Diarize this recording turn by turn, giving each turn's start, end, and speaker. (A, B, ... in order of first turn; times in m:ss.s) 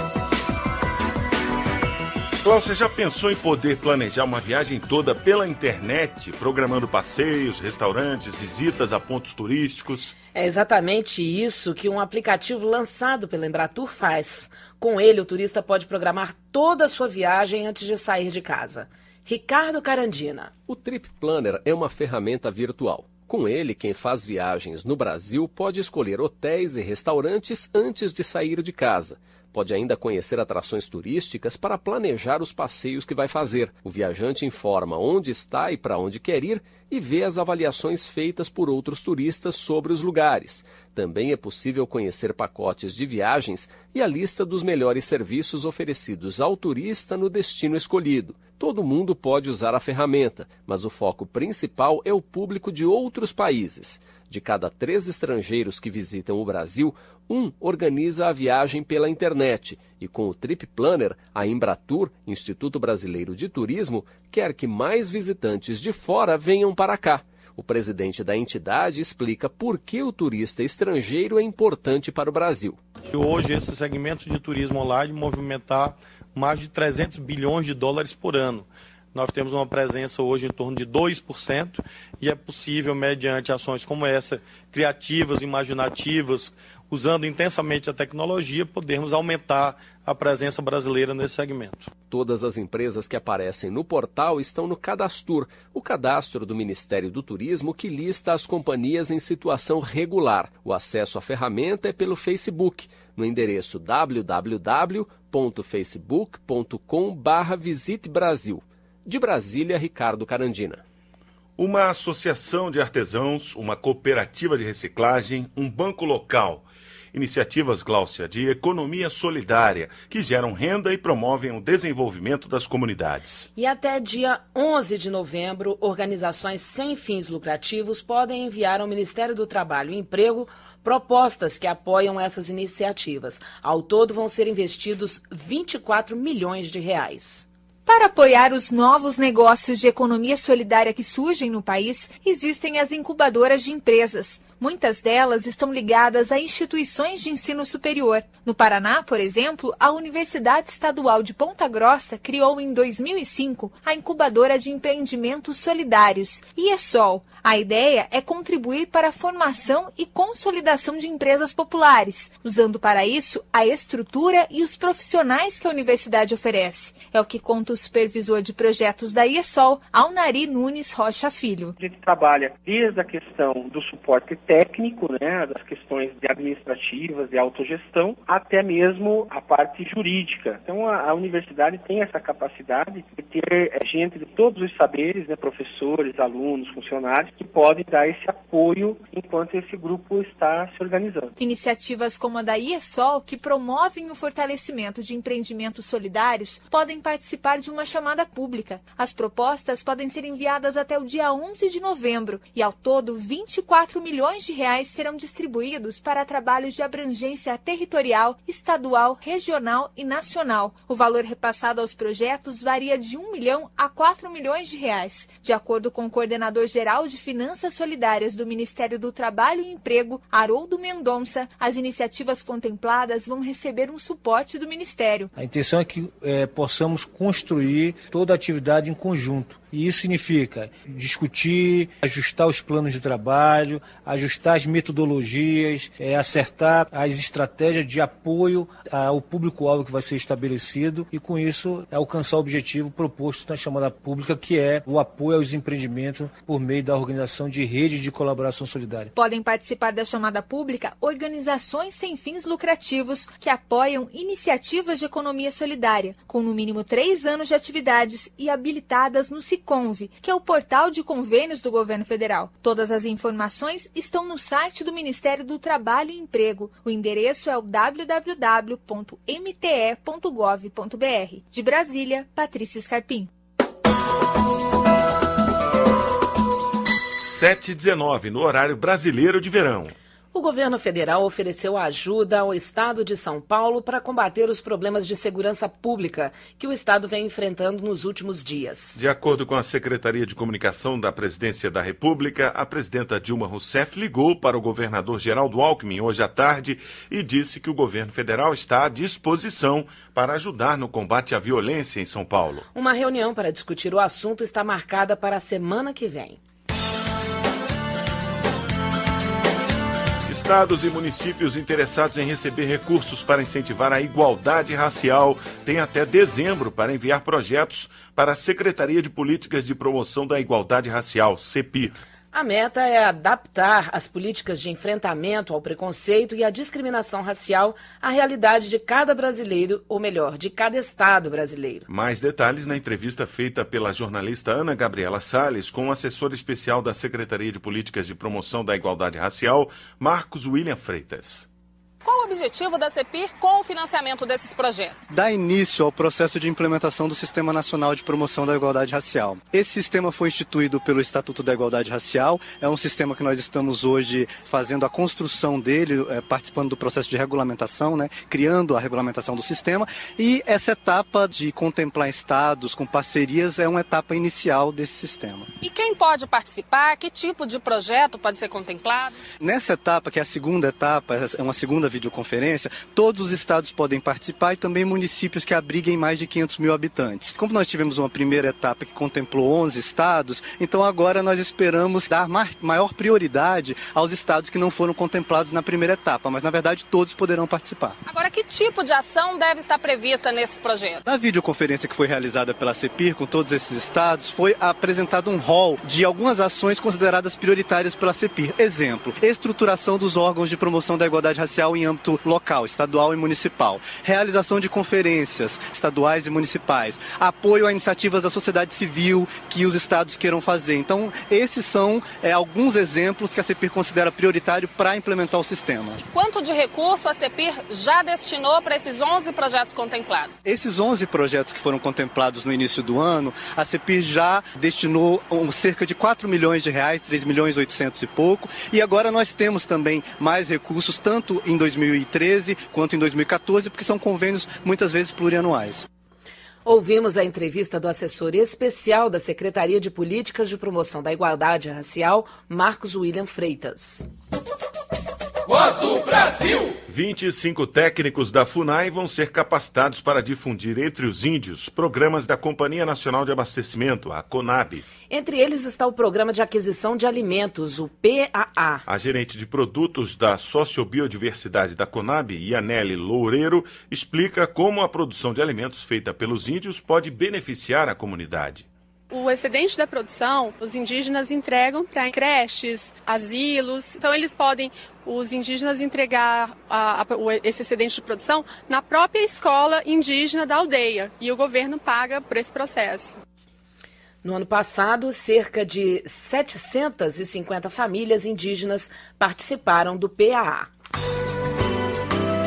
0:02.4-0:10.1 A
0:10.3-0:20.5 B
0:20.6-1:12.8 C
1:13.1-1:31.9 D
1:32.1-1:50.8 C
1:51.6-2:03.5 A
2:03.6-2:17.5 B
2:17.8-2:51.7 E
2:51.8-3:11.3 F
3:11.4-3:45.3 E
3:45.4-4:09.1 G
4:09.2-4:33.3 E
4:37.2-4:39.9 A
4:40.3-4:49.0 B
4:49.0-5:02.6 A
5:02.7-5:06.4 B
5:10.3-5:21.9 A
5:22.3-5:31.8 B
5:31.9-5:41.5 A
5:42.0-5:45.0 H
5:45.1-6:05.5 I
6:05.6-6:09.2 H
6:09.4-6:28.0 I
6:28.1-6:31.0 H
6:31.0-6:56.0 I
6:56.0-7:00.4 H
7:00.4-7:15.8 I
7:16.6-7:24.0 B
7:26.9-7:34.8 A
7:35.1-7:38.8 B
7:38.9-7:48.6 A
7:49.1-8:03.2 J
8:04.2-8:10.7 B